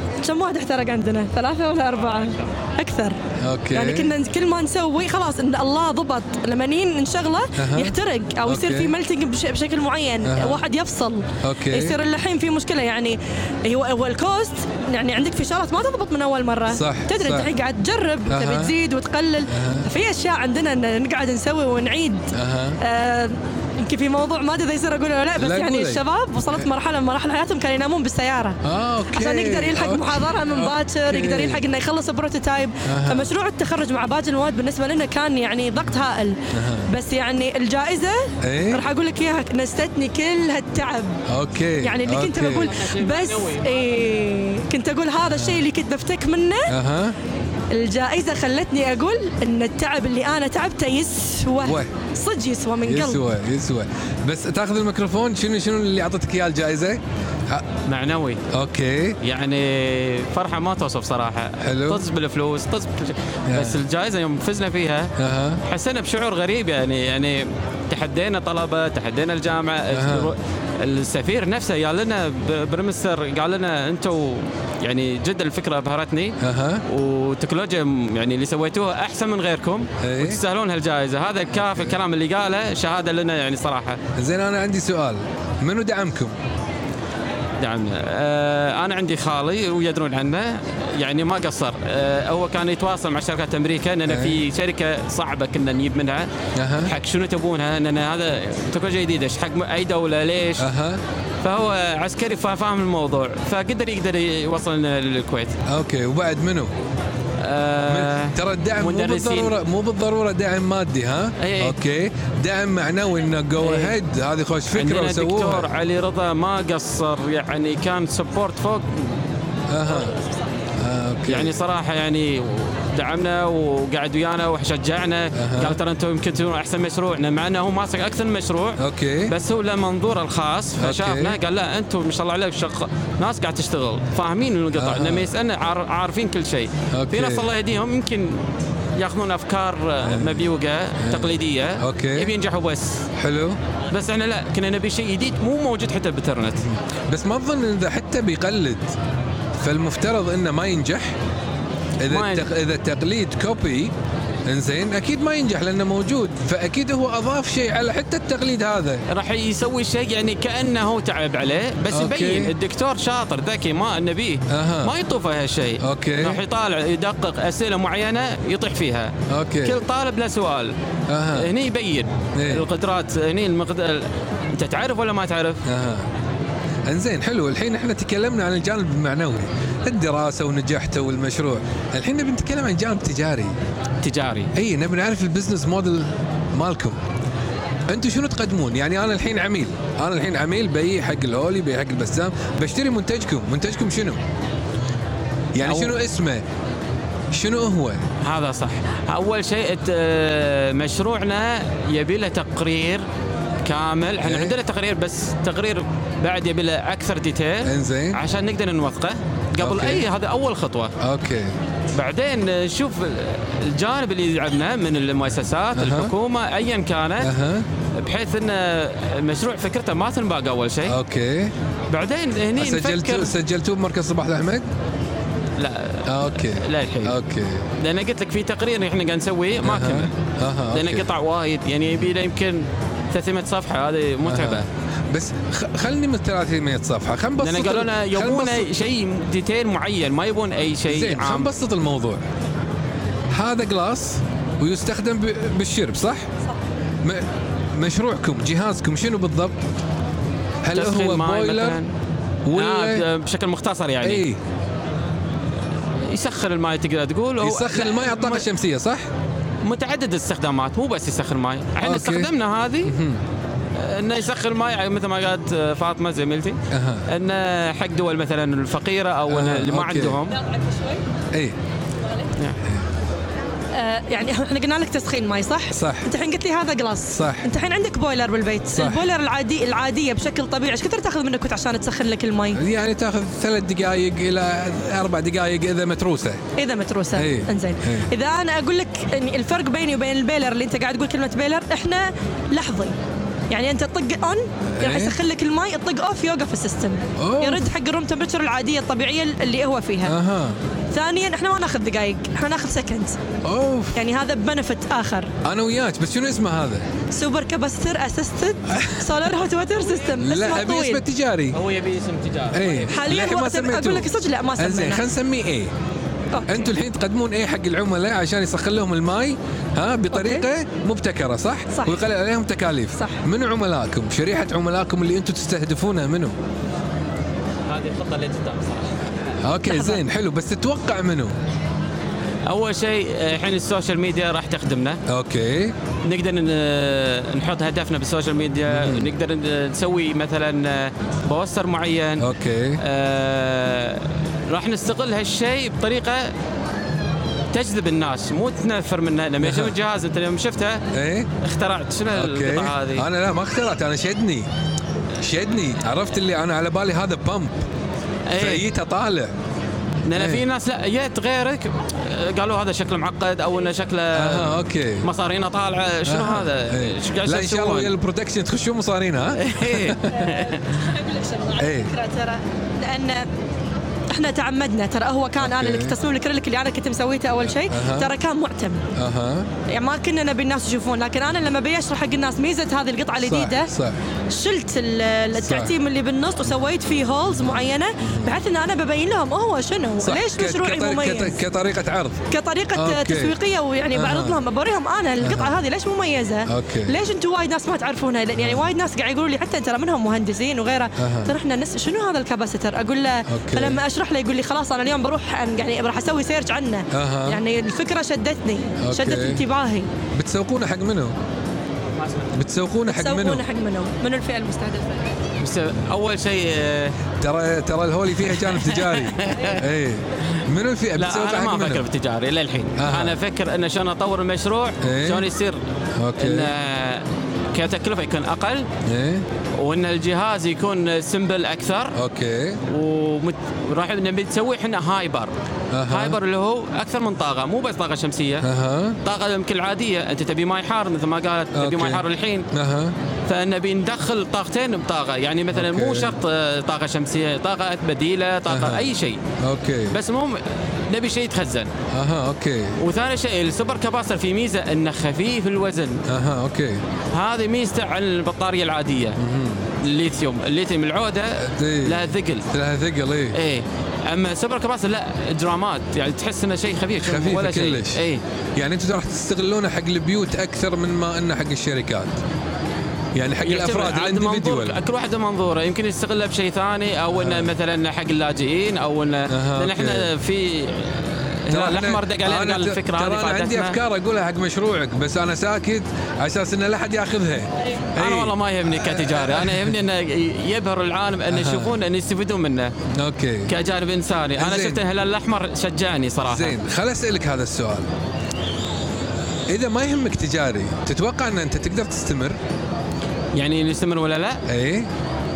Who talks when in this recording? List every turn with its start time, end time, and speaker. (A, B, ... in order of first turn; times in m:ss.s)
0:00.2-0:03.2 A
0:03.4-0:04.1 B
0:03.7-0:28.6 A
0:07.6-0:07.9 B
0:08.4-0:08.9 B
0:10.2-0:10.6 B
0:11.4-0:12.0 B
0:16.7-0:17.5 B
0:18.3-0:18.7 B
0:19.5-0:19.9 B
0:22.3-0:22.8 B
0:25.4-0:26.0 B
0:28.6-0:31.6 B
0:29.1-0:41.2 A
0:32.8-0:33.3 B
0:36.5-0:36.9 B
0:38.4-0:38.8 B
0:41.3-0:42.8 B
0:41.8-0:46.7 A
0:42.7-0:43.7 C
0:45.3-0:45.6 B
0:46.7-0:47.2 B
0:47.7-0:53.2 A
0:51.6-0:51.9 B
0:52.8-0:57.6 B
0:57.8-0:58.4 C
0:58.5-0:59.2 B
0:59.2-1:05.1 C
1:01.6-1:02.0 B
1:03.5-1:03.8 B
1:05.2-1:05.6 B
1:05.6-1:24.0 C
1:09.9-1:10.3 B
1:16.4-1:16.8 B
1:20.0-1:20.4 B
1:21.6-1:21.9 B
1:24.2-1:26.3 B
1:27.6-1:36.3 C
1:34.1-1:34.4 B
1:36.6-1:36.9 B
1:36.8-1:40.7 C
1:40.6-1:41.0 B
1:41.4-1:45.6 C
1:45.6-1:46.7 B
1:47.4-1:49.5 C
1:47.8-1:55.7 B
1:51.4-1:51.8 C
1:53.6-1:54.0 C
1:54.7-1:59.1 C
1:59.7-2:00.1 B
2:00.8-2:01.5 B
2:01.3-2:23.1 C
2:05.3-2:05.8 B
2:08.8-2:09.3 B
2:10.8-2:11.4 B
2:14.7-2:15.3 B
2:16.9-2:17.5 B
2:20.0-2:20.5 B
2:21.0-2:22.3 B
2:23.2-2:23.6 B
2:23.9-2:26.6 C
2:27.1-2:28.9 B
2:29.6-2:31.2 B
2:32.0-2:33.9 B
2:32.1-2:32.4 C
2:34.4-2:39.0 B
2:39.1-2:50.7 C
2:41.9-2:42.5 B
2:44.5-2:44.9 B
2:45.8-2:46.4 B
2:49.3-2:49.8 B
2:51.1-2:51.5 B
2:51.3-2:55.6 C
2:52.4-2:52.7 B
2:55.6-2:56.1 B
2:56.9-3:03.5 B
3:04.0-3:04.5 C
3:04.5-3:07.0 B
3:07.9-3:14.2 B
3:15.5-3:16.4 B
3:15.6-3:15.9 C
3:17.3-3:18.0 B
3:18.2-3:23.0 C
3:23.6-3:30.9 C
3:24.2-3:24.6 B
3:27.6-3:28.2 B
3:29.6-3:30.1 B
3:31.0-3:31.6 B
3:31.9-3:37.3 C
3:35.7-3:36.1 B
3:37.2-3:37.7 B
3:37.9-3:41.0 C
3:40.8-3:41.5 B
3:41.9-3:43.3 C
3:42.6-3:44.7 B
3:45.6-3:47.2 C
3:46.0-3:47.7 B
3:47.8-3:50.1 C
3:49.6-3:51.1 B
3:50.7-3:54.7 C
3:54.2-3:58.7 B
3:57.4-4:01.5 C
4:00.9-4:02.2 B
4:03.3-4:06.3 B
4:07.0-4:09.6 B
4:10.6-4:11.8 B
4:10.7-4:11.9 C
4:12.4-4:13.0 B
4:12.5-4:14.2 C
4:14.0-4:14.4 B
4:16.0-4:18.5 C
4:17.4-4:19.1 B
4:19.6-4:23.0 C
4:21.8-4:22.3 B
4:22.8-4:23.2 B
4:23.8-4:30.4 C
4:26.7-4:27.1 B
4:29.3-4:30.2 B
4:30.6-4:31.0 A
4:33.7-4:42.6 A
4:35.7-4:36.1 B
4:37.1-4:37.5 B
4:38.7-4:39.0 B
4:42.5-4:46.4 B
4:46.6-4:53.0 A
4:47.1-4:48.1 B
4:53.5-5:00.1 A
4:54.8-4:55.2 B
4:57.2-4:57.7 B
5:00.0-5:00.6 B
5:00.9-5:03.2 A
5:03.4-5:04.0 B
5:03.9-5:05.3 A
5:05.4-5:06.8 B
5:07.1-5:11.0 A
5:08.7-5:09.2 B
5:10.2-5:11.6 B
5:11.5-5:12.9 C
5:12.5-5:15.7 B
5:12.9-5:15.0 A
5:16.3-5:16.7 A
5:16.5-5:26.4 B
5:20.1-5:20.4 A
5:21.7-5:22.0 A
5:23.0-5:23.2 A
5:27.7-5:28.9 C
5:29.4-5:31.3 B
5:29.6-5:30.0 A
5:32.4-5:35.0 C
5:35.1-5:35.7 B
5:36.0-5:42.3 C
5:38.7-5:39.1 B
5:42.2-5:42.8 B
5:42.8-5:46.3 C
5:47.5-5:50.8 C
5:49.4-5:49.7 B
5:50.9-5:51.3 B
5:51.4-5:53.0 C
5:52.1-5:54.5 B
5:55.2-5:57.6 B
5:58.3-5:58.6 C
5:58.4-5:59.3 B
6:00.0-6:07.9 C
6:00.1-6:00.4 B
6:04.1-6:05.1 B
6:06.0-6:10.0 B
6:09.3-6:10.7 C
6:10.3-6:13.3 A
6:11.6-6:11.9 B
6:14.1-6:18.8 A
6:15.4-6:16.0 B
6:17.6-6:18.1 B
6:18.9-6:19.5 B
6:19.7-6:23.7 A
6:23.2-6:24.0 B
6:24.3-6:31.4 A
6:25.4-6:25.7 B
6:27.4-6:28.3 B
6:30.0-6:32.2 B
6:32.3-6:49.9 A
6:32.7-6:33.4 B
6:33.9-6:34.4 B
6:35.2-6:35.5 B
6:36.5-6:36.9 B
6:38.4-6:38.6 B
6:41.0-6:41.3 B
6:43.3-6:43.8 B
6:46.9-6:47.4 B
6:48.8-6:49.5 B
6:50.1-6:51.1 B
6:52.0-6:52.3 C
6:52.3-6:53.4 B
6:52.9-6:55.1 A
6:55.4-6:57.0 C
6:57.2-7:01.8 B
6:58.2-6:59.6 C
7:01.0-7:05.6 C
7:02.8-7:03.2 B
7:04.8-7:05.3 B
7:06.0-7:06.5 B
7:06.2-7:08.7 C
7:08.8-7:09.2 B
7:09.6-7:12.0 C
7:11.9-7:12.6 B
7:12.7-7:15.3 C
7:15.7-7:16.2 B
7:15.9-7:18.5 C
7:18.4-7:19.0 B
7:19.0-7:22.5 C
7:21.5-7:22.9 B
7:23.3-7:29.2 C
7:25.5-7:26.1 B
7:28.5-7:28.9 B
7:29.4-7:30.0 B
7:29.9-7:31.7 C
7:31.9-7:32.8 B
7:32.8-7:36.0 C
7:36.1-7:36.8 B
7:37.1-7:39.2 C
7:39.2-7:39.7 B
7:39.8-7:42.5 C
7:41.4-7:43.4 B
7:43.3-7:48.2 C
7:47.0-7:48.0 B
7:48.6-7:52.2 B
7:53.1-7:54.8 B
7:53.4-8:03.8 C
7:57.1-7:57.5 B
7:59.3-8:00.1 B
8:01.5-8:09.8 B
8:07.8-8:12.7 C
8:11.3-8:11.8 B
8:12.9-8:13.5 B
8:13.5-8:16.5 C
8:14.4-8:14.8 B
8:16.2-8:17.9 B
8:19.5-8:22.4 B
8:23.3-8:24.4 C
8:24.5-8:24.9 B